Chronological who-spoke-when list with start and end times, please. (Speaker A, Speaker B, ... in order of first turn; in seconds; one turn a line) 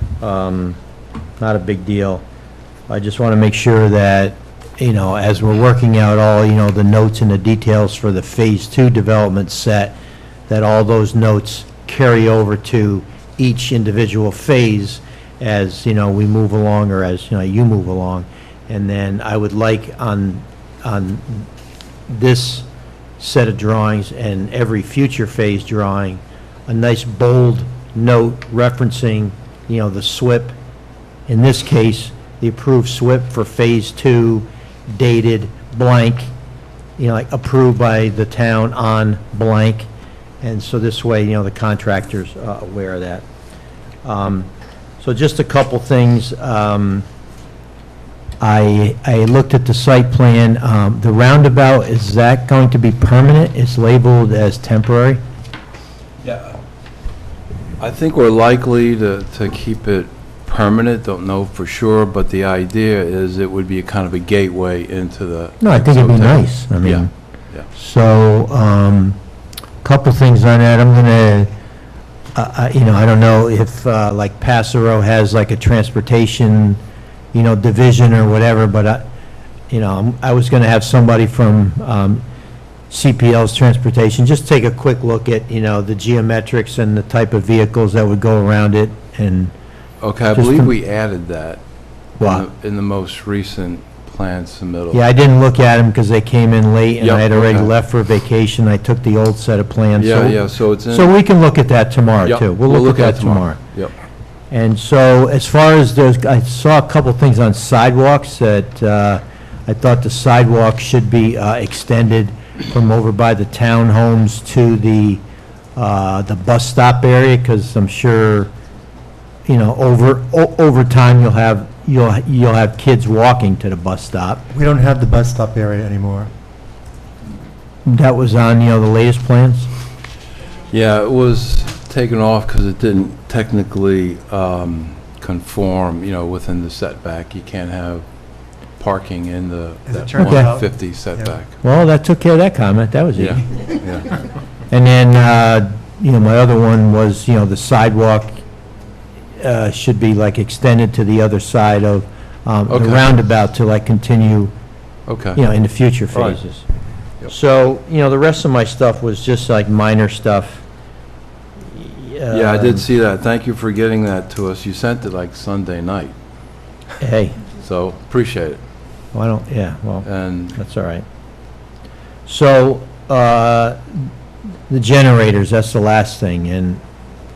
Speaker A: 0.2-0.8
Speaker A: 1.4-2.2
Speaker A: 2.9-9.9
Speaker A: 10.5-21.5
Speaker A: 22.1-22.6
Speaker A: 23.2-30.5
Speaker A: 31.3-36.3
Speaker A: 37.0-39.9
Speaker A: 40.4-43.2
Speaker A: 44.0-44.5
Speaker A: 45.0-47.0
Speaker A: 48.4-55.2
Speaker B: 56.2-56.5
Speaker B: 57.8-67.7
Speaker A: 65.6-67.1
Speaker A: 67.7-69.2
Speaker A: 69.8-71.5
Speaker A: 72.3-76.8
Speaker A: 77.3-79.0
Speaker A: 79.7-82.2
Speaker A: 82.9-89.5
Speaker B: 90.0-91.6
Speaker A: 90.3-90.7
Speaker B: 92.2-95.0
Speaker A: 92.2-92.4
Speaker A: 94.9-103.6
Speaker B: 97.0-97.7
Speaker B: 99.9-101.1
Speaker B: 102.2-103.9
Speaker A: 104.5-115.2
Speaker A: 115.8-118.5
Speaker A: 119.5-124.4
Speaker C: 124.5-126.3
Speaker A: 127.9-129.7
Speaker B: 130.7-138.0
Speaker B: 138.8-141.5
Speaker C: 139.9-141.3
Speaker A: 140.2-140.5
Speaker A: 141.6-143.7
Speaker B: 143.2-144.1
Speaker A: 144.7-148.3
Speaker A: 149.4-154.5
Speaker B: 152.7-153.2
Speaker B: 155.1-155.4
Speaker A: 155.3-156.6
Speaker B: 156.1-156.4
Speaker A: 157.3-160.6
Speaker A: 161.7-162.8
Speaker B: 162.3-166.1
Speaker A: 167.0-167.4
Speaker B: 167.6-168.6
Speaker A: 169.1-171.0
Speaker B: 170.0-170.6
Speaker A: 172.3-174.1
Speaker A: 174.7-176.8